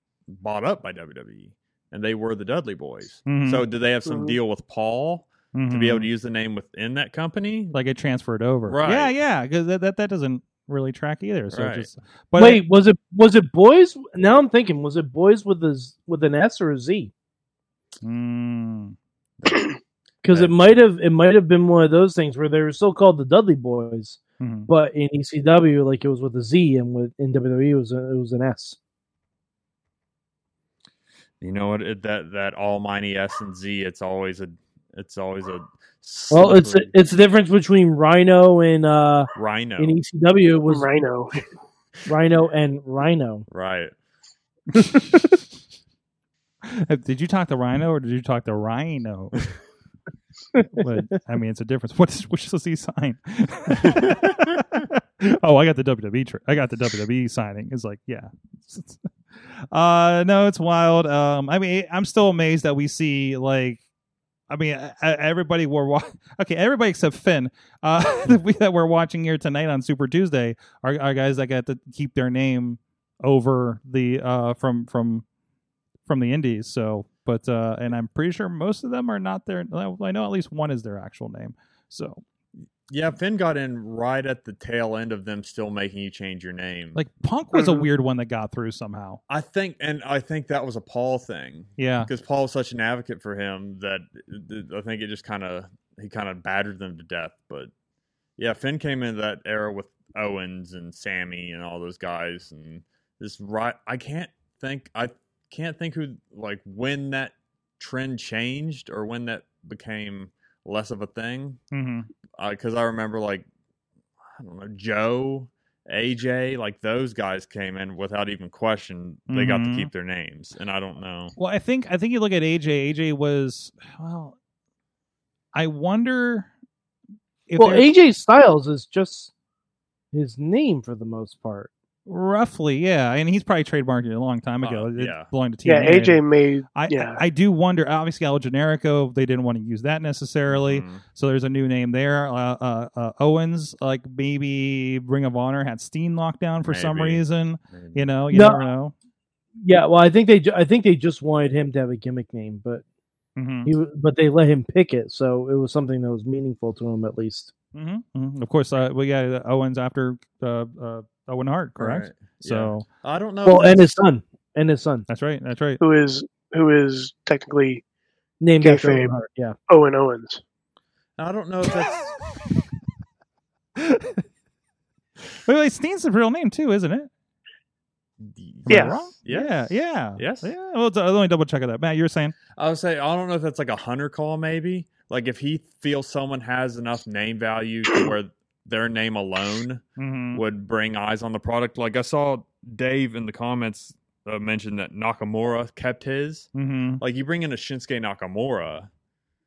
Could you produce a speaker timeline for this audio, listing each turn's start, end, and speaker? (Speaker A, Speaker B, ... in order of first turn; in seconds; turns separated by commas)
Speaker A: 0.3-7.8, Speaker B: 3.2-3.6, Speaker C: 4.0-4.4, Speaker B: 5.5-6.1, Speaker B: 7.7-12.6, Speaker A: 8.7-9.1, Speaker A: 11.5-11.9, Speaker D: 12.3-17.1, Speaker B: 18.0-18.9, Speaker A: 19.4-20.6, Speaker D: 20.2-28.8, Speaker B: 24.4-24.7, Speaker A: 31.4-36.9, Speaker D: 36.3-41.0, Speaker A: 39.3-40.0, Speaker C: 40.7-41.4, Speaker D: 42.1-43.4, Speaker A: 43.5-43.9, Speaker B: 44.8-45.3, Speaker B: 46.7-49.4, Speaker D: 50.6-51.0, Speaker B: 50.7-59.0, Speaker A: 53.9-54.1, Speaker B: 59.7-63.8, Speaker B: 64.5-75.2, Speaker B: 76.1-82.2, Speaker A: 82.9-87.0, Speaker B: 86.9-89.2, Speaker A: 89.3-97.7, Speaker B: 91.8-92.1, Speaker A: 98.4-111.6, Speaker B: 111.7-112.1, Speaker A: 112.4-113.5, Speaker A: 114.3-121.3, Speaker B: 119.3-119.9, Speaker B: 121.4-124.3, Speaker B: 125.5-126.5, Speaker B: 127.5-127.9, Speaker D: 127.6-129.3, Speaker D: 130.1-131.7, Speaker B: 132.1-136.2, Speaker A: 134.6-135.3, Speaker C: 135.6-137.2, Speaker B: 136.7-148.9, Speaker A: 140.5-141.0, Speaker A: 146.7-148.0, Speaker D: 148.3-148.6, Speaker D: 149.6-152.8, Speaker B: 153.4-153.7, Speaker D: 153.6-157.5, Speaker B: 157.7-162.8, Speaker A: 161.8-163.9, Speaker D: 163.4-165.1, Speaker B: 165.1-165.8, Speaker C: 165.8-167.8, Speaker D: 168.4-169.5, Speaker C: 168.6-169.1, Speaker C: 169.7-170.4, Speaker A: 171.2-172.1, Speaker B: 173.8-174.2, Speaker B: 175.4-177.1, Speaker A: 178.2-180.5, Speaker B: 178.7-182.3, Speaker C: 178.7-178.9, Speaker A: 182.6-198.9, Speaker B: 190.0-190.4, Speaker B: 196.5-197.0